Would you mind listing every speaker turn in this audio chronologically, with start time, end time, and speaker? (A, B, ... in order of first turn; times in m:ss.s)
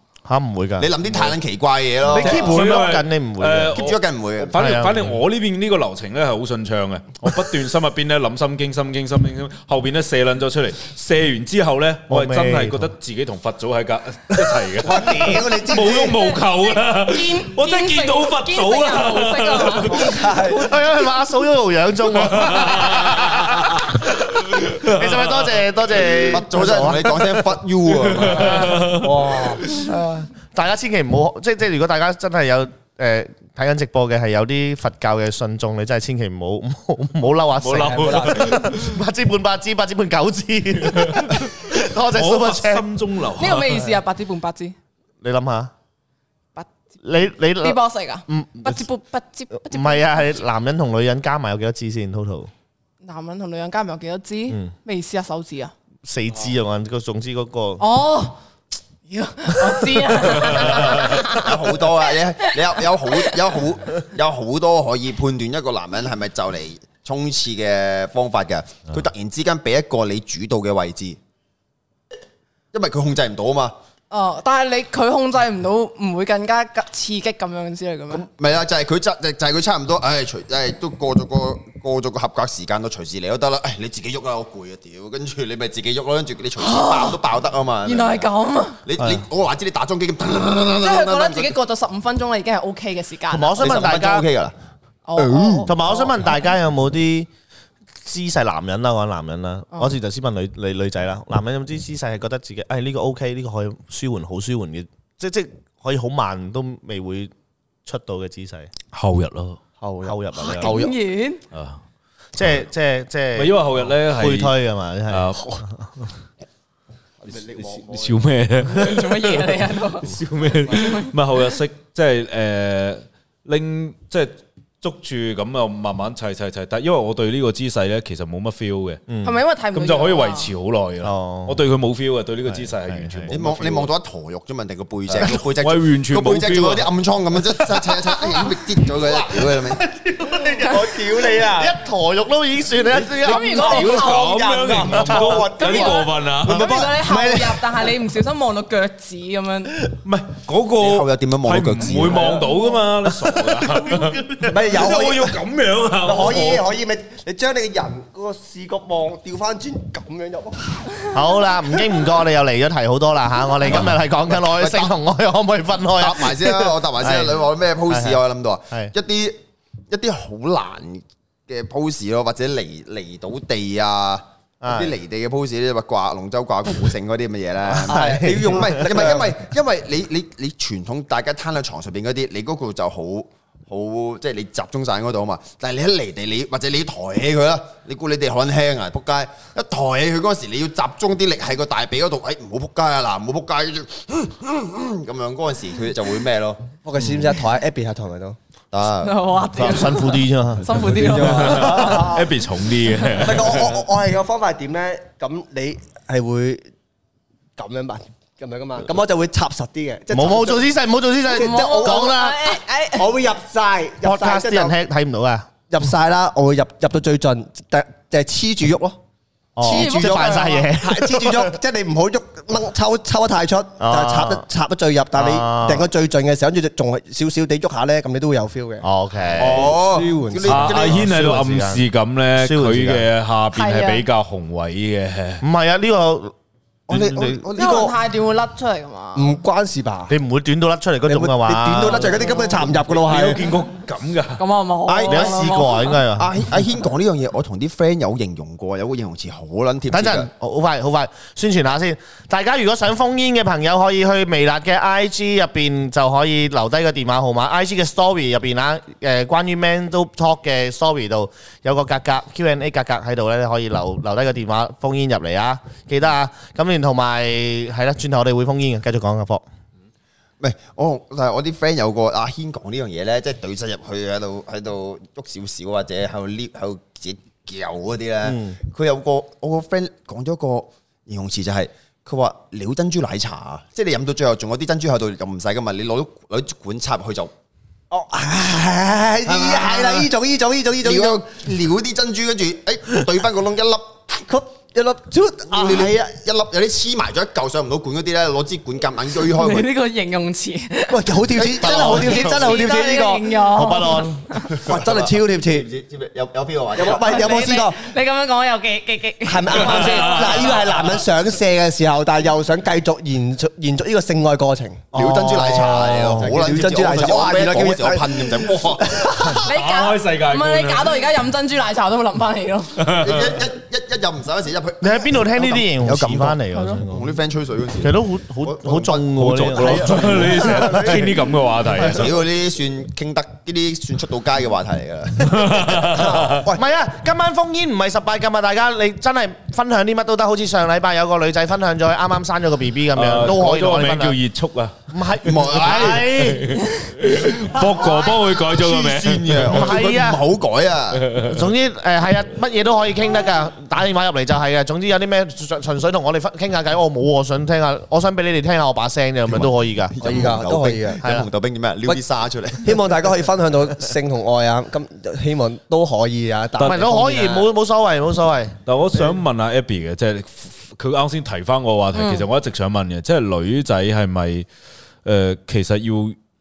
0:00.2-0:01.3 A
0:00.8-0:02.8 B
0:02.1-0:03.8 A
0:02.1-0:20.3 C
0:03.7-0:04.5 B
0:04.5-0:05.1 A
0:12.1-0:12.9 A
0:14.8-0:16.2 D
0:16.0-0:20.1 E
0:19.9-0:20.7 D
0:20.4-0:23.3 A
0:22.3-0:23.9 C
0:24.5-0:25.4 C
0:24.8-0:27.4 A
0:26.3-0:28.6 B
0:28.0-0:29.8 C
0:28.4-0:29.6 D
0:30.3-0:42.8 A
0:37.6-0:38.9 C
0:37.7-0:38.7 D
0:40.8-0:41.5 C
0:42.1-0:43.9 C
0:43.4-0:44.7 E
0:45.2-0:45.7 A
0:47.0-0:48.8 A
0:47.6-0:50.1 E
0:49.6-0:52.5 A
0:53.0-0:55.7 E
0:56.0-0:57.8 A
0:57.8-0:58.3 E
0:59.1-1:01.6 E
1:01.3-1:11.2 B
1:02.5-1:03.4 E
1:12.7-1:13.7 B
1:14.1-1:18.3 E
1:18.1-1:28.3 B
1:26.6-1:27.2 E
1:27.8-1:28.8 E
1:28.8-1:31.6 B
1:30.8-1:33.6 E
1:33.3-1:34.2 A
1:33.6-1:34.5 B
1:35.0-1:36.1 E
1:35.2-1:35.7 B
1:35.7-1:37.3 A
1:38.0-1:47.3 A
1:47.8-1:48.7 A
1:48.9-1:49.6 C
1:49.8-1:51.0 D
1:50.0-1:50.8 A
1:50.4-1:51.4 E
1:51.5-1:51.8 C
1:52.4-1:55.3 A
1:53.4-1:54.5 C
1:55.1-1:55.6 C
1:57.2-1:58.2 D
1:57.5-2:09.1 C
1:58.7-2:00.1 E
2:00.7-2:01.1 E
2:09.1-2:09.4 A
2:09.2-2:10.5 E
2:09.7-2:13.9 C
2:11.0-2:11.6 A
2:12.5-2:13.4 A
2:13.3-2:19.8 B
2:15.1-2:16.9 C
2:17.8-2:23.6 A
2:20.6-2:21.7 D
2:23.2-2:24.4 E
2:23.4-2:27.9 D
2:23.4-2:26.9 C
2:25.4-2:29.7 E
2:30.0-2:36.6 C
2:30.8-2:32.4 B
2:33.9-2:34.5 A
2:34.5-2:35.4 D
2:36.0-2:41.0 D
2:41.1-2:48.2 A
2:43.7-2:44.9 B
2:46.0-2:49.4 B
2:49.9-3:16.7 B
2:54.6-2:54.9 A
2:57.8-2:58.8 A
2:57.8-2:59.3 D
3:16.8-3:18.4 D
3:18.7-3:19.5 B
3:19.0-3:22.0 E
3:19.6-3:20.6 A
3:20.9-3:22.4 D
3:21.1-3:23.8 C
3:23.2-3:26.7 D
3:27.6-3:30.7 D
3:30.1-3:32.5 A
3:31.3-3:32.2 D
3:31.3-3:33.1 E
3:32.9-3:34.8 D
3:34.0-3:35.5 A
3:35.7-3:39.0 D
3:39.6-3:41.6 A
3:39.6-3:50.7 D
3:39.6-3:40.7 E
3:43.8-3:44.4 A
3:45.2-3:45.9 A
3:48.8-3:49.7 A
3:49.4-3:51.0 B
3:50.4-3:55.4 C
3:50.7-3:51.8 A
3:52.4-3:53.0 A
3:53.5-3:54.0 E
3:55.4-3:56.3 A
3:56.9-3:57.9 B
3:56.9-3:57.4 A
3:57.6-3:59.3 E
3:57.6-3:57.9 D
3:59.1-4:00.1 D
4:00.1-4:02.1 A
4:01.0-4:03.4 D
4:02.1-4:02.6 E
4:02.9-4:04.4 C
4:04.4-4:06.0 E
4:04.8-4:10.3 B
4:05.1-4:06.3 A
4:09.9-4:29.4 A
4:30.4-4:47.3 B
4:38.2-4:38.6 A
4:47.9-4:51.2 D
4:49.2-4:50.1 B
4:50.8-4:54.0 B
4:54.1-4:56.0 D
4:55.5-4:59.7 B
4:59.3-5:04.5 E
5:00.9-5:03.4 D
5:01.4-5:02.7 B
5:03.5-5:04.2 A
5:04.5-5:07.4 B
5:04.6-5:05.7 D
5:06.7-5:07.8 D
5:07.0-5:10.6 E
5:09.2-5:14.9 D
5:09.6-5:10.6 C
5:14.9-5:16.2 A
5:14.9-5:19.2 B
5:15.5-5:19.4 D
5:19.4-5:22.8 E
5:19.4-5:21.0 C
5:22.8-5:23.3 C
5:22.9-5:30.5 B
5:24.8-5:27.1 A
5:26.5-5:26.8 E
5:27.8-5:29.9 A
5:29.4-5:32.1 C
5:29.6-5:31.3 D
5:31.8-5:36.1 B
5:35.4-5:36.2 C
5:36.0-5:36.6 D
5:36.5-5:44.2 A
5:42.9-5:44.8 C
5:44.9-5:46.5 A
5:45.2-5:46.1 B
5:45.7-5:49.6 C
5:48.5-5:51.1 B
5:49.5-5:50.2 A
5:51.2-6:00.3 A
5:59.3-6:02.8 B
6:00.0-6:01.0 D
6:01.0-6:01.3 A
6:02.6-6:07.5 D
6:06.6-6:06.8 C
6:06.6-6:08.6 A
6:08.6-6:14.4 C
6:11.9-6:12.3 E
6:15.0-6:16.2 C